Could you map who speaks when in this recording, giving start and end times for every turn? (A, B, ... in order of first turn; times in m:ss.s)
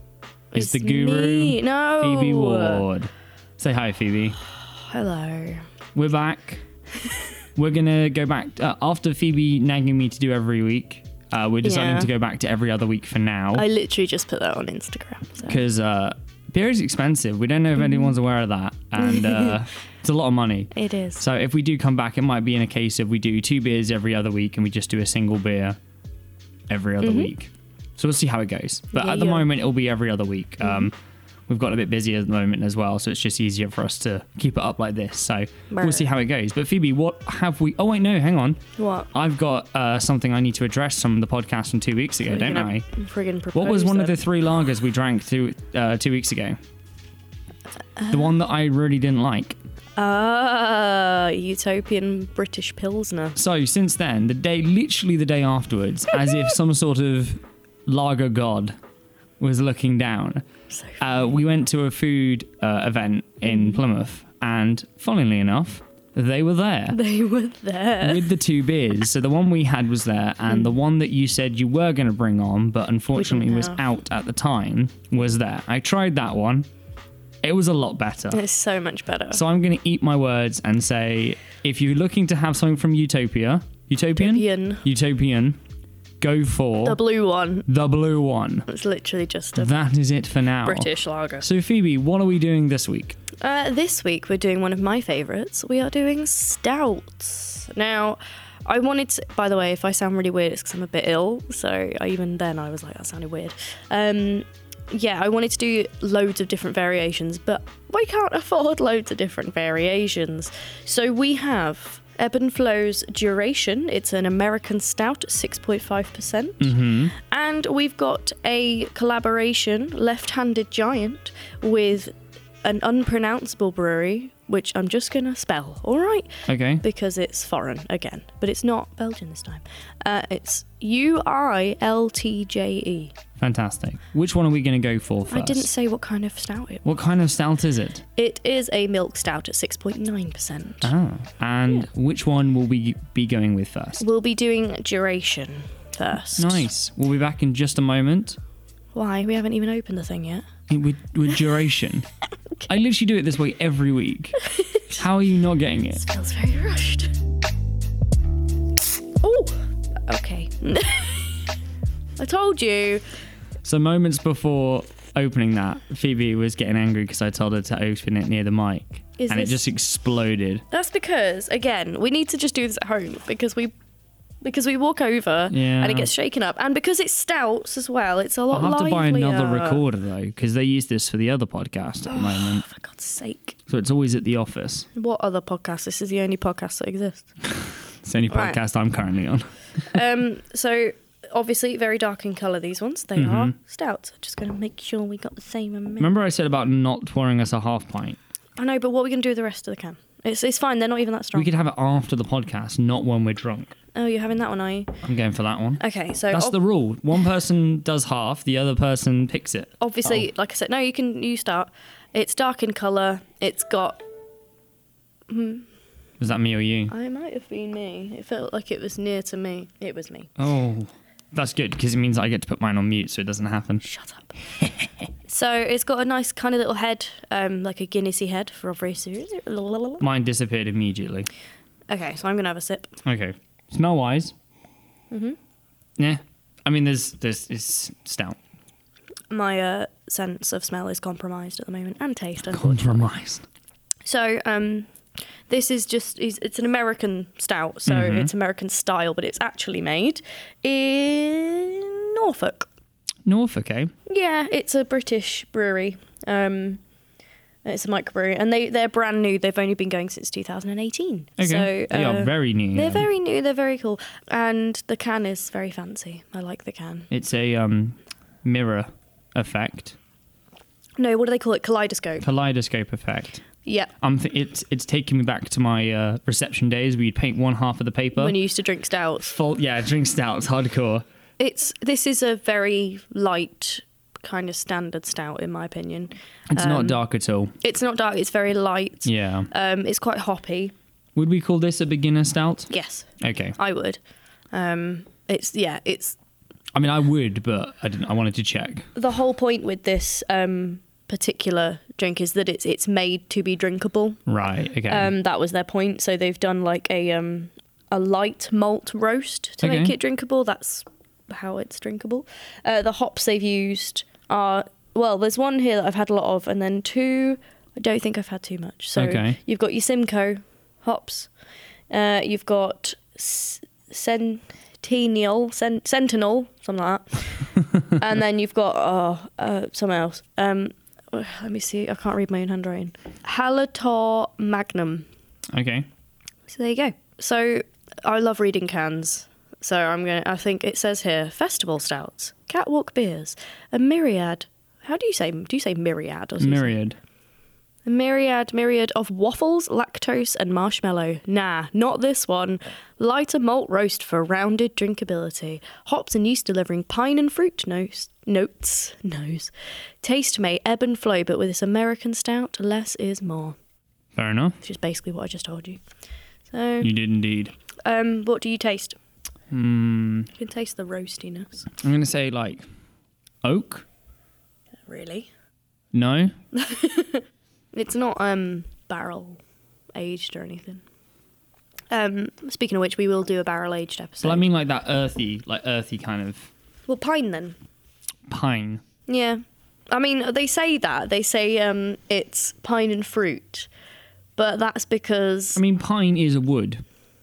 0:00.5-0:02.9 A
0:00.5-0:04.4 B
0:04.5-0:05.7 A
0:05.9-0:06.6 B
0:07.0-0:07.3 A
0:07.6-0:13.6 B
0:11.6-0:12.1 A
0:13.5-0:15.6 A
0:15.4-0:25.8 B
0:17.8-0:18.1 A
0:19.0-0:19.6 A
0:20.7-0:21.2 A
0:26.7-0:31.0 B
0:27.0-0:27.3 A
0:28.9-0:29.5 A
0:30.6-0:30.9 A
0:31.5-0:38.6 B
0:35.7-0:36.1 A
0:38.8-0:39.1 A
0:39.1-0:42.8 B
0:42.2-0:44.2 A
0:43.5-0:46.6 B
0:48.0-0:48.3 A
0:48.1-0:49.6 B
0:50.0-0:53.4 A
0:53.4-0:58.8 B
0:59.4-1:00.4 B
1:00.7-1:01.0 A
1:01.0-1:07.0 B
1:03.4-1:03.8 A
1:06.9-1:08.3 A
1:08.0-1:16.7 B
1:13.1-1:13.8 A
1:17.4-1:18.4 B
1:18.3-1:19.4 A
1:19.3-1:25.6 B
1:24.2-1:24.8 A
1:26.2-1:27.0 B
1:26.8-1:27.6 A
1:27.6-1:28.7 B
1:28.7-1:29.7 A
1:29.6-1:33.2 B
1:30.6-1:31.5 A
1:33.4-2:13.2 A
1:56.6-1:57.1 B
2:06.5-2:06.8 B
2:13.4-2:15.7 B
2:15.3-2:16.8 A
2:16.8-2:18.0 B
2:18.2-2:20.9 A
2:20.8-2:24.0 B
2:24.0-2:26.6 A
2:26.4-2:28.4 B
2:28.9-2:30.4 A
2:30.7-2:32.1 B
2:32.6-2:36.0 B
2:34.5-2:34.8 A
2:36.0-2:37.1 A
2:39.2-2:41.5 A
2:42.2-2:43.0 A
2:43.6-2:50.6 B
2:49.2-2:49.6 A
2:50.7-2:53.7 A
2:54.4-2:59.8 A
2:55.5-2:56.1 B
2:58.5-3:02.6 B
3:02.1-3:03.6 A
3:03.7-3:04.9 B
3:04.9-3:07.3 A
3:08.0-3:10.0 B
3:08.3-3:08.6 A
3:09.9-3:16.1 A
3:13.2-3:13.5 B
3:16.0-3:18.2 B
3:18.6-3:21.5 A
3:21.3-3:23.7 B
3:23.9-3:24.9 A
3:25.0-3:30.2 B
3:25.8-3:26.6 A
3:29.8-3:34.0 A
3:35.3-3:35.7 A
3:36.2-3:36.9 B
3:36.9-3:40.3 A
3:40.4-3:43.8 B
3:43.8-3:44.3 A
3:45.2-3:50.0 A
3:50.0-3:51.3 B
3:51.9-3:53.0 A
3:53.0-3:54.3 B
3:55.1-3:55.4 A
3:56.0-3:58.4 B
3:59.3-4:03.1 A
4:02.5-4:03.4 B
4:04.0-4:04.9 A
4:05.5-4:12.7 A
4:07.9-4:08.3 B
4:13.2-4:13.9 B
4:14.0-4:16.8 A
4:17.6-4:27.1 A
4:21.4-4:23.0 B
4:27.1-4:30.0 B
4:31.0-4:32.2 A
4:32.2-4:33.4 B
4:33.6-4:33.9 A
4:34.0-4:38.3 B
4:38.2-4:39.3 A
4:39.2-4:41.0 B
4:41.4-4:47.0 A
4:46.5-4:47.5 B
4:47.6-4:50.7 A
4:49.0-4:49.5 B
4:51.2-4:53.6 B
4:52.7-4:54.0 A
4:54.5-4:56.2 A
4:56.7-4:58.9 B
4:58.9-5:04.2 A
5:04.3-5:05.1 B
5:04.9-5:21.3 A
5:09.6-5:09.9 B
5:19.0-5:19.4 B
5:21.9-5:35.1 A
5:27.5-5:28.0 B
5:35.5-5:35.8 B
5:36.5-5:46.7 A
5:46.4-5:47.0 B
5:47.8-6:03.6 A
6:04.2-6:04.6 B
6:04.6-6:05.8 A
6:06.5-6:06.9 A
6:06.8-6:07.5 B
6:07.8-6:09.0 A
6:09.5-6:10.3 B
6:10.3-6:11.7 A
6:11.8-6:12.6 B
6:13.4-6:13.8 B
6:14.8-6:15.3 A
6:15.9-6:16.3 B
6:16.5-6:19.4 A
6:19.9-6:20.8 A
6:21.9-6:24.5 A
6:24.2-6:26.5 B
6:26.9-6:27.6 A
6:28.3-6:28.8 B
6:29.1-6:33.7 A
6:34.4-6:35.6 A
6:35.5-6:36.8 B